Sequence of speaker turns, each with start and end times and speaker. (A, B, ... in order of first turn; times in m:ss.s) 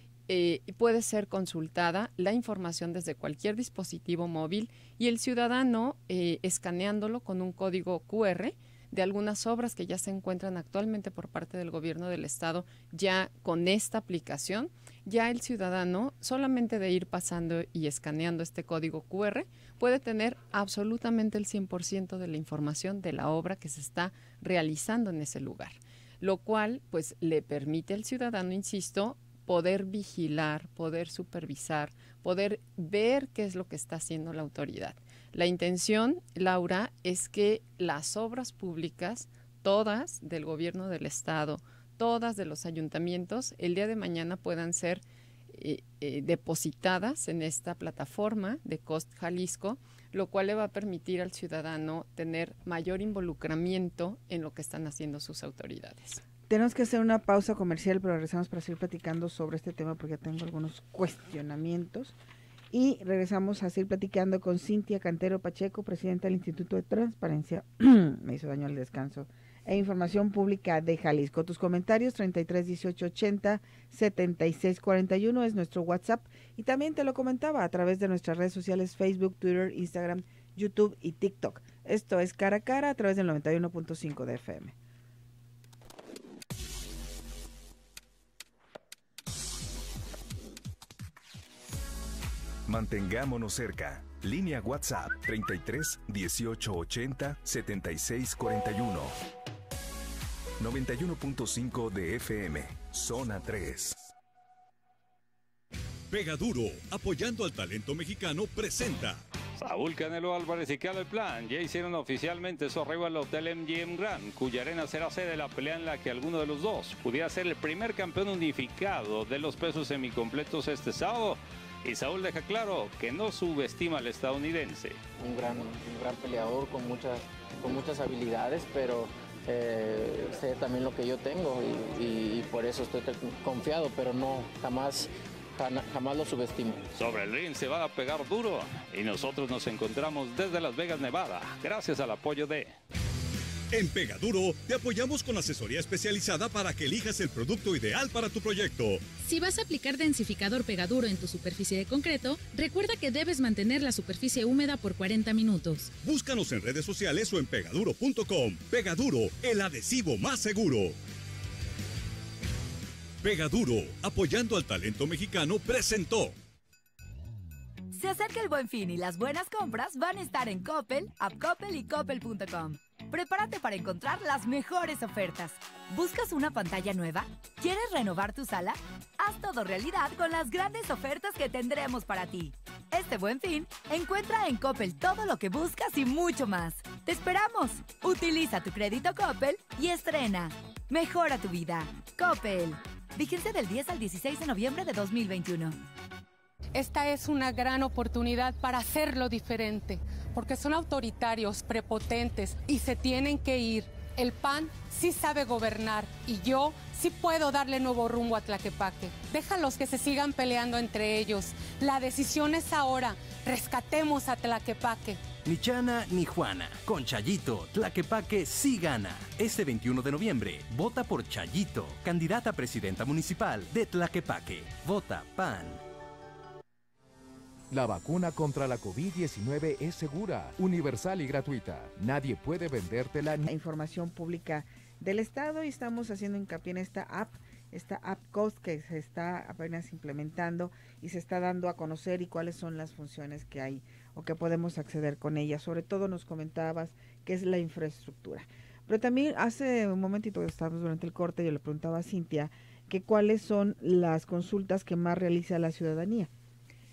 0:00.3-0:56.2 A
0:56.5-1:02.1 B
1:02.7-1:24.7 B
1:32.7-1:39.2 C
1:40.6-1:44.1 C
1:46.1-1:49.2 D
1:49.6-2:05.0 E
2:05.2-2:16.8 F
2:16.9-2:22.8 E
2:23.7-2:29.0 D
2:29.2-2:35.9 G
2:36.0-2:41.0 D
2:43.2-2:46.3 D
2:47.9-3:15.8 H
3:16.7-3:35.2 I
3:35.4-3:45.8 J
3:47.7-3:53.5 K
3:53.5-4:16.3 B